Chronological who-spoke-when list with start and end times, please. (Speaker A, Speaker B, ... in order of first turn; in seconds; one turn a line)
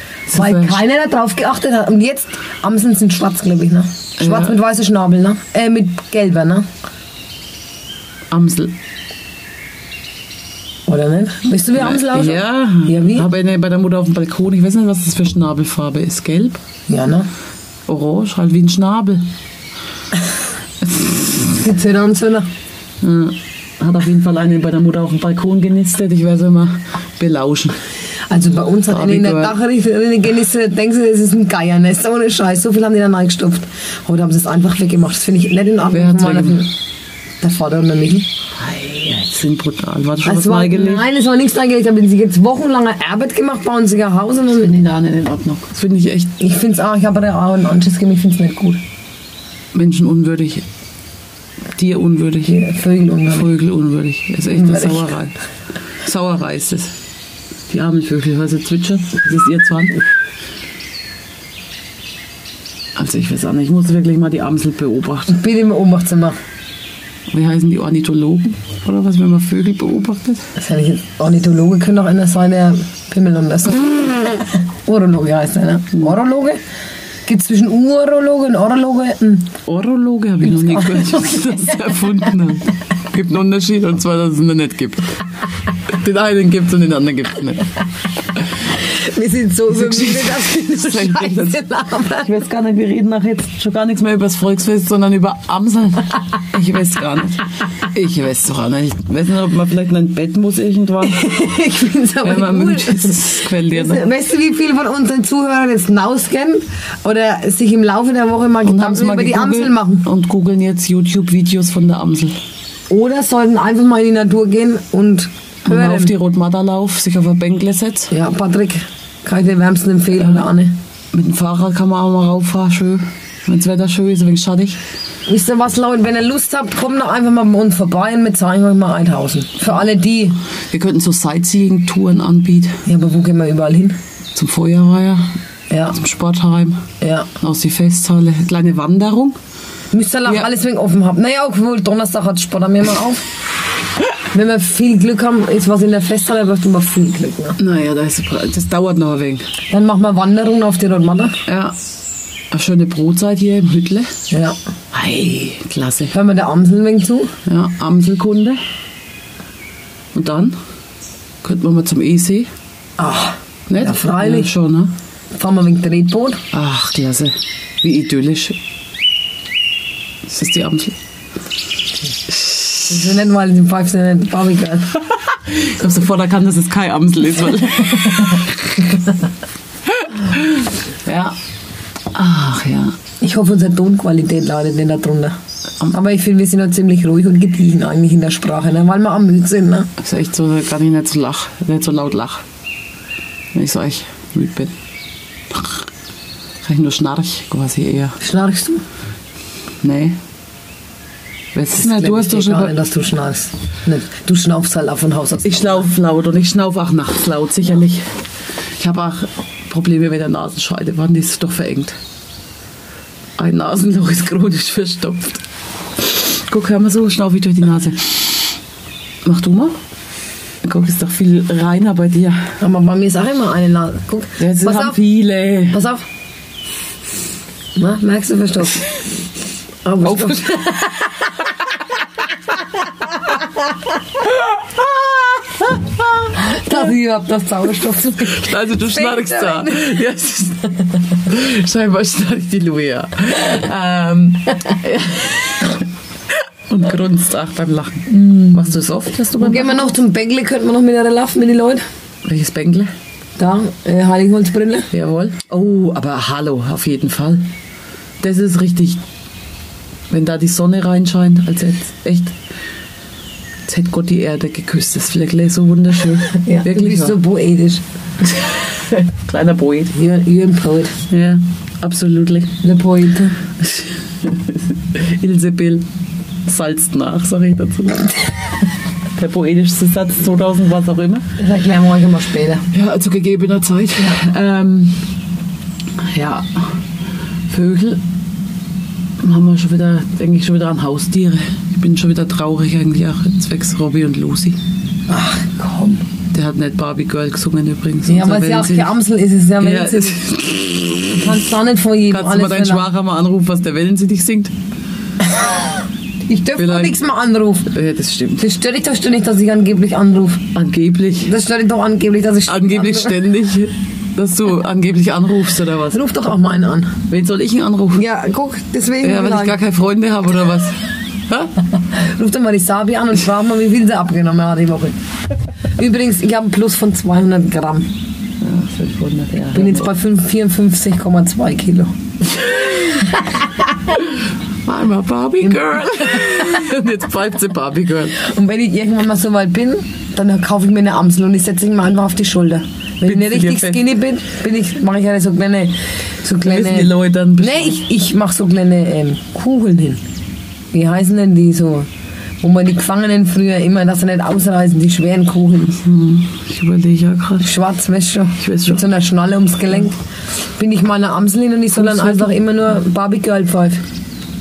Speaker A: 0.3-0.8
Speaker B: 0.3-6.7
Speaker A: 4.2-4.6
Speaker A: 8.3-8.8
Speaker B: 10.9-13.3
Speaker A: 11.8-16.6
Speaker B: 16.9-17.3
Speaker A: 17.9-19.3
Speaker A: 20.8-21.6
Speaker B: 21.5-22.5
Speaker A: 23.0-27.8
Speaker B: 28.3-36.7
Speaker A: 28.9-29.6
Speaker A: 35.9-36.6
Speaker B: 37.4-38.3
Speaker A: 38.6-41.1
Speaker B: 40.2-44.7
Speaker A: 44.6-46.3
Speaker B: 46.4-48.8
Speaker A: 49.7-50.6
Speaker A: 51.8-52.6
Speaker B: 52.5-53.5
Speaker A: 53.3-55.4
Speaker B: 54.5-55.1
Speaker A: 56.0-56.9
Speaker A: 57.7-60.0
Speaker A: 63.0-65.3
Speaker B: 65.3-66.4
Speaker A: 67.3-70.5
Speaker B: 70.6-76.6
Speaker B: 77.3-79.5
Speaker A: 79.7-85.2
Speaker B: 80.5-81.7
Speaker A: 85.9-87.7
Speaker B: 88.7-92.4
Speaker A: 89.7-91.6
Speaker A: 92.2-101.3
Speaker B: 101.0-110.0
Speaker A: 102.2-104.0
Speaker A: 108.6-112.3
Speaker B: 112.9-116.1
Speaker A: 115.7-118.1
Speaker B: 118.1-120.8
Speaker A: 120.2-120.5
Speaker A: 121.1-124.8
Speaker B: 125.3-130.4
Speaker A: 130.7-132.8
Speaker B: 132.9-134.0
Speaker A: 134.3-135.3
Speaker B: 135.7-136.0
Speaker A: 135.9-136.8
Speaker B: 137.0-137.3
Speaker A: 137.4-139.4
Speaker B: 139.9-143.2
Speaker B: 144.3-147.6
Speaker A: 147.6-149.5
Speaker B: 149.7-151.4
Speaker A: 151.5-151.8
Speaker A: 152.5-154.2
Speaker B: 154.3-154.6
Speaker A: 154.9-156.1
Speaker B: 156.1-157.3
Speaker A: 157.4-158.6
Speaker A: 160.1-160.6
Speaker A: 161.4-162.5
Speaker B: 163.0-164.5
Speaker A: 163.7-164.9
Speaker B: 165.3-166.4
Speaker A: 166.5-168.6
Speaker A: 170.2-171.0
Speaker A: 172.3-173.0
Speaker B: 172.9-175.0
Speaker A: 175.2-178.9
Speaker A: 179.9-181.4
Speaker A: 182.1-183.0
Speaker B: 183.2-185.4
Speaker B: 185.9-189.9
Speaker A: 190.0-192.4
Speaker A: 193.5-194.7
Speaker A: 195.5-195.9
Speaker A: 196.6-198.2
Speaker B: 198.2-198.8
Speaker A: 199.8-200.2
Speaker A: 201.6-202.7
Speaker B: 201.8-205.9
Speaker A: 205.4-208.1
Speaker A: 208.8-212.0
Speaker A: 213.4-215.4
Speaker A: 216.0-218.5
Speaker A: 219.2-219.8
Speaker A: 220.6-222.6
Speaker B: 222.6-225.0
Speaker A: 224.4-225.8
Speaker B: 225.7-226.1
Speaker B: 227.8-228.9
Speaker B: 229.8-231.5
Speaker A: 230.1-230.4
Speaker B: 233.0-233.5
Speaker A: 234.3-236.3
Speaker B: 236.3-239.9
Speaker A: 238.2-249.9
Speaker B: 248.1-248.8
Speaker B: 249.4-251.8
Speaker A: 252.2-252.9
Speaker B: 253.4-254.9
Speaker A: 254.9-257.5
Speaker A: 258.2-259.0
Speaker A: 260.1-262.4
Speaker A: 263.7-267.2
Speaker B: 266.3-267.8
Speaker A: 268.2-269.9
Speaker B: 269.9-271.0
Speaker A: 271.1-272.6
Speaker B: 272.6-273.4
Speaker A: 273.6-275.9
Speaker A: 276.5-278.1
Speaker A: 279.1-281.3
Speaker B: 281.4-282.7
Speaker A: 282.7-285.0
Speaker A: 286.0-286.7
Speaker A: 287.5-288.0
Speaker A: 289.2-294.6
Speaker B: 295.1-296.0
Speaker A: 296.3-298.9
Speaker B: 298.1-300.2
Speaker A: 299.6-301.3
Speaker B: 301.1-302.9
Speaker A: 302.1-304.5
Speaker B: 305.3-305.6
Speaker B: 306.3-307.7
Speaker A: 306.6-307.0
Speaker A: 307.7-308.4
Speaker B: 308.4-310.5
Speaker A: 310.5-311.3
Speaker B: 311.2-313.2
Speaker A: 312.5-316.0
Speaker B: 315.9-317.0
Speaker A: 317.1-318.1
Speaker B: 317.9-319.6
Speaker A: 319.0-321.6
Speaker B: 321.9-325.0
Speaker B: 325.8-327.9
Speaker A: 328.4-329.9
Speaker B: 329.5-333.5
Speaker A: 334.6-338.2
Speaker B: 335.4-336.6
Speaker B: 338.1-350.0
Speaker A: 343.1-343.8
Speaker A: 346.4-347.8
Speaker B: 350.7-351.9
Speaker B: 352.4-355.8
Speaker A: 355.7-357.5
Speaker B: 357.4-360.0
Speaker A: 358.4-358.9
Speaker B: 360.6-363.8
Speaker A: 361.7-362.4